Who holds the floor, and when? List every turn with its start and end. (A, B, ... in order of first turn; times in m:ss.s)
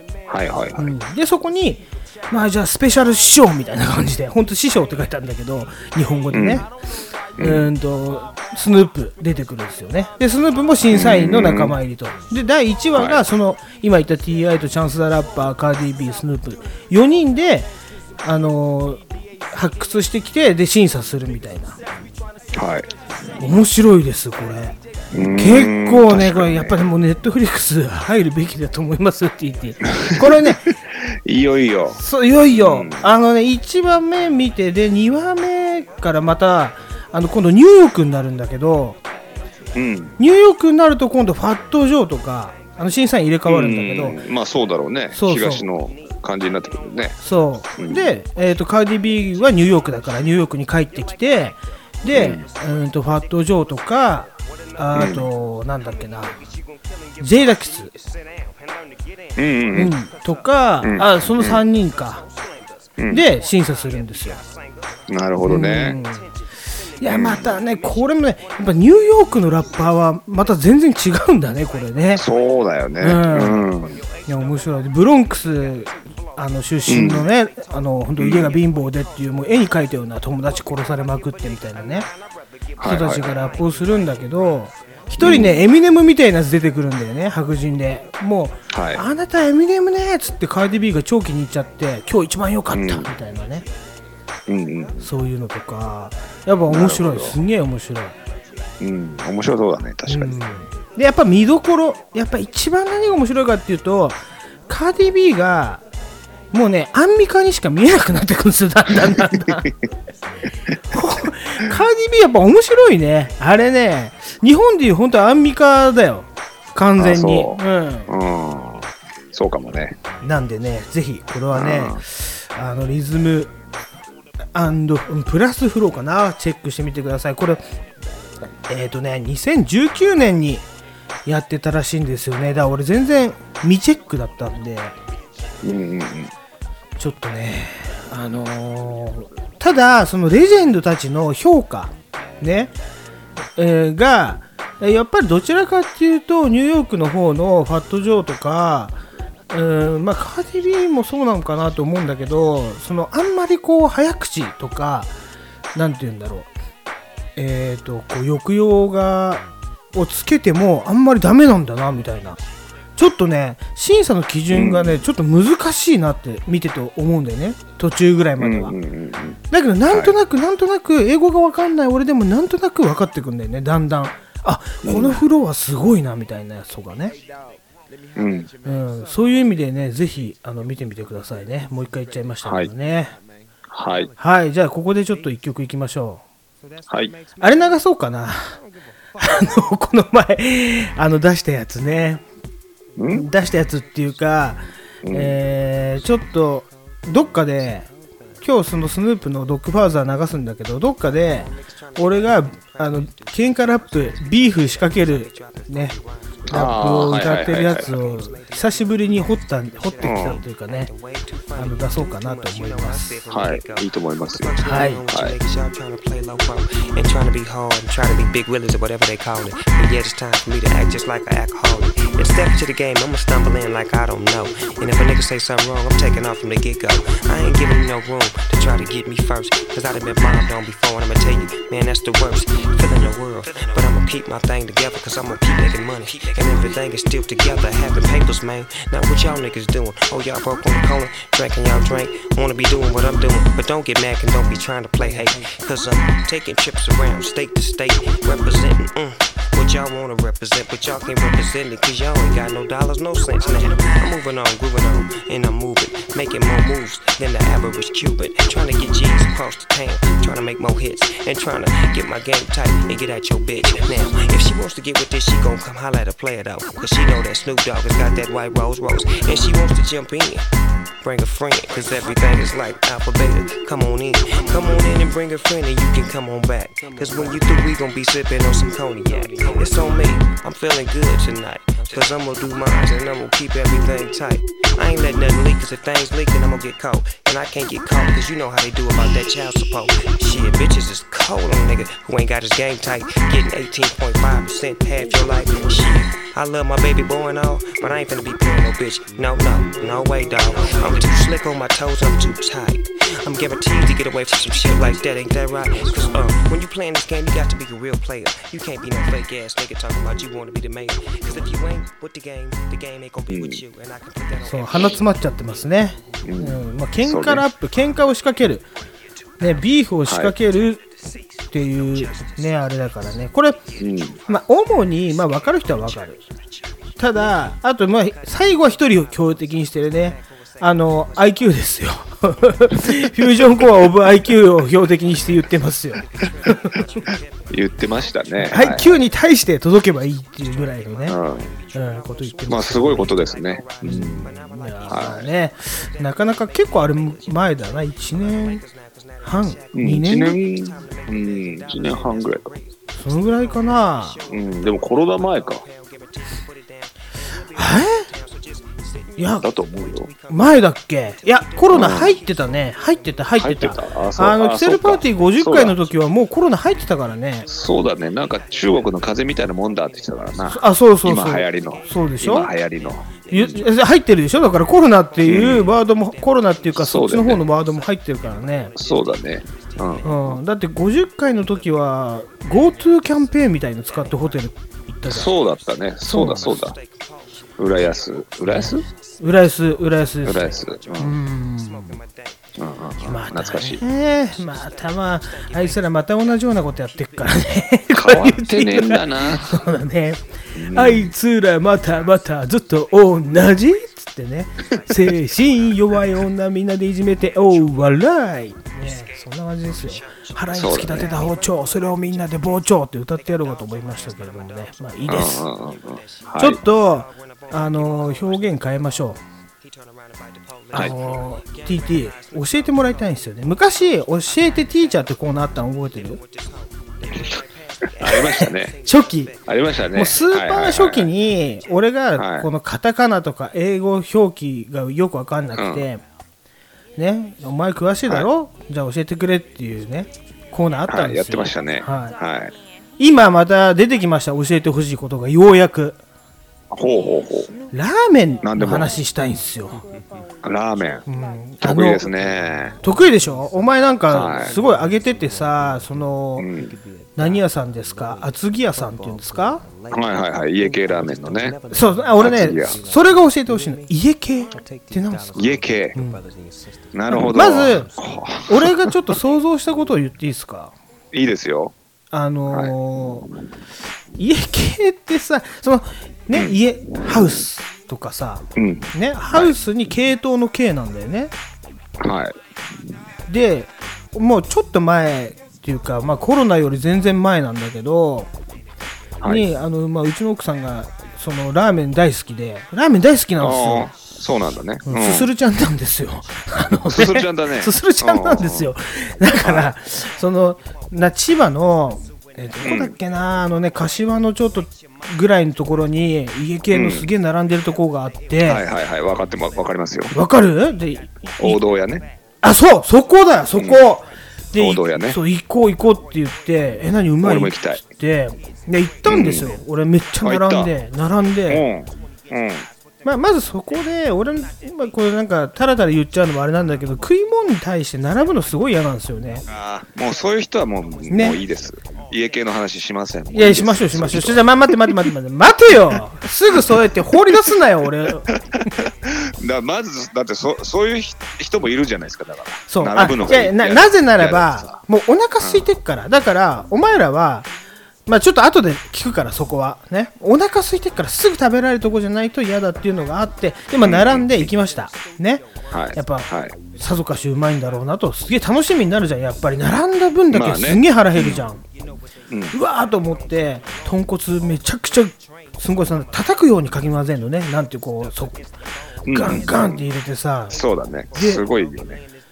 0:00.3-0:00.9 A
0:00.8-0:06.7 B
0:06.3-0:06.7 A
0:07.4-0:07.7 A
0:07.4-0:17.7 B
0:10.9-0:11.8 A
0:18.2-0:19.0 B
0:19.5-0:21.8 B
0:22.5-0:23.5 A
0:23.4-0:24.8 B
0:25.1-0:26.8 A
0:25.3-0:30.7 B
0:30.1-0:33.1 A
0:32.0-0:39.0 B
0:39.8-0:40.2 A
0:40.2-0:44.2 B
0:43.5-0:47.2 A
0:45.1-0:45.7 B
0:47.2-0:56.4 B
0:47.8-0:48.2 A
0:52.1-0:52.5 A
0:54.9-0:55.3 A
0:57.2-0:57.9 B
0:59.4-0:59.9 A
0:59.7-1:02.2 B
1:00.8-1:01.6 A
1:03.0-1:03.2 A
1:03.1-1:04.4 B
1:05.1-1:06.0 A
1:05.4-1:06.3 B
1:07.0-1:12.2 B
1:07.1-1:07.6 A
1:12.2-1:14.0 A
1:13.0-1:13.7 B
1:14.3-1:22.1 B
1:16.9-1:17.3 A
1:18.2-1:18.6 A
1:22.8-1:23.3 A
1:22.8-1:33.7 B
1:25.2-1:25.6 A
1:28.7-1:29.0 A
1:32.7-1:33.1 A
1:34.5-1:35.0 A
1:35.0-1:38.2 B
1:36.7-1:37.4 A
1:38.8-1:40.4 A
1:40.1-1:45.8 B
1:46.5-1:49.7 B
1:49.3-1:49.7 A
1:50.9-1:58.1 B
1:57.0-2:00.0 A
2:00.2-2:03.5 B
2:01.5-2:02.0 A
2:04.6-2:07.6 B
2:08.7-2:10.6 B
2:11.3-2:15.0 B
2:15.6-2:16.3 A
2:17.0-2:22.7 B
2:23.6-2:29.0 B
2:29.5-2:35.1 B
2:35.8-2:36.5 B
2:37.4-2:42.4 B
2:43.0-2:48.8 B
2:44.5-2:45.0 A
2:48.4-2:50.2 A
2:49.5-2:57.2 B
2:54.8-2:55.2 A
2:58.2-2:58.5 A
2:58.6-3:03.2 B
3:02.4-3:02.7 A
3:03.7-3:04.1 A
3:04.2-3:06.2 B
3:06.8-3:07.1 A
3:07.4-3:08.6 B
3:09.2-3:12.2 B
3:13.0-3:13.3 A
3:13.1-3:17.9 B
3:15.0-3:15.4 A
3:18.4-3:25.9 B
3:25.3-3:26.0 C
3:26.5-3:30.9 B
3:26.5-3:27.9 A
3:30.0-3:30.4 A
3:30.7-4:30.4 C
3:31.6-3:33.2 B
3:33.3-3:34.6 A
3:34.6-3:35.0 B
3:35.1-3:35.3 A
4:31.0-5:15.0 C
5:13.3-5:13.6 A
5:14.4-5:18.7 B
5:16.2-5:17.4 A
5:19.4-5:20.8 B
5:20.1-5:20.3 A
5:21.5-5:23.6 B
5:23.8-5:24.2 A
5:24.3-5:26.2 B
5:27.0-5:36.8 B
5:37.5-5:39.0 A
5:38.4-5:41.2 B
5:41.1-5:41.5 A
5:41.7-5:43.2 B
5:42.5-5:44.3 A
5:43.8-5:48.6 B
5:44.9-5:45.3 A
5:49.2-5:50.4 B
5:49.7-5:52.6 A
5:53.0-5:54.2 B
5:54.3-5:55.6 A
5:57.5-5:58.1 B
5:59.2-5:59.5 B
5:59.4-6:00.1 A
6:00.3-6:07.5 B
6:01.7-6:02.2 A
6:03.4-6:05.8 A
6:07.5-6:13.7 A
6:10.5-6:12.5 B
6:13.3-6:18.7 B
6:15.3-6:15.7 A
6:16.8-6:17.4 A
6:18.8-6:20.4 A
6:20.0-6:25.3 B
6:25.1-6:26.8 A
6:26.1-6:26.6 B
6:27.6-6:28.8 A
6:28.5-6:32.0 B
6:30.2-6:31.2 A
6:32.6-6:33.8 A
6:33.0-6:55.5 B
6:37.9-6:39.6 A
6:40.6-6:41.1 A
6:50.5-6:51.1 A
6:55.1-6:56.6 A
6:56.4-6:59.2 B
7:00.7-7:06.2 B
7:00.7-7:01.0 A
7:08.0-7:08.8 A
7:08.0-7:09.3 B
7:09.4-7:11.1 A
7:09.9-7:16.0 B
7:12.2-7:12.5 A
7:15.6-7:15.9 A
7:17.0-7:22.2 B
7:20.9-7:22.5 A
7:23.0-7:26.0 B
7:26.7-7:27.5 A
7:27.7-7:29.8 B
7:28.4-7:28.9 A
7:30.4-7:31.0 A
7:31.1-7:32.1 B
7:31.6-7:32.8 A
7:32.8-7:36.5 B
7:34.1-7:34.6 A
7:36.4-7:36.8 A
7:37.2-7:39.7 B
7:39.9-7:41.6 A
7:41.7-7:46.2 B
7:42.2-7:42.8 A
7:45.3-7:46.0 A
7:46.9-7:48.9 A
7:47.1-7:47.9 B
7:48.5-7:50.7 B
7:51.1-7:51.7 A
7:52.1-7:53.3 B
7:52.5-7:52.8 A
7:54.2-8:01.3 B
7:56.3-7:57.4 A
7:58.6-7:59.5 A
8:02.0-8:02.4 A
8:03.3-8:08.3 B
8:09.2-8:13.9 B
8:13.4-8:15.3 A
8:14.9-8:28.6 B
8:16.9-8:18.7 A
8:19.4-8:19.7 A
8:22.6-8:22.9 A
8:26.7-8:27.1 A
8:28.4-8:30.2 A
8:30.1-8:31.6 B
8:31.4-8:32.1 A
8:32.4-8:41.6 B
8:33.6-8:33.8 A
8:34.6-8:35.2 A
8:37.2-8:37.8 A
8:39.1-8:39.5 A
8:40.2-8:40.7 A
8:41.5-8:42.7 A
8:43.0-8:49.4 B
8:49.5-8:55.0 A
8:51.1-8:51.4 B
8:53.3-8:58.3 B
8:58.4-9:04.8 A
9:02.7-9:07.5 B
9:05.4-9:05.7 A
9:08.1-9:21.6 B
9:13.8-9:14.5 A
9:15.7-9:16.6 A
9:20.3-9:21.4 A
9:22.3-9:22.6 A
9:22.5-9:28.4 B
9:29.1-9:29.8 A
9:29.1-9:30.6 B
9:30.5-9:32.0 A
9:31.1-9:31.4 B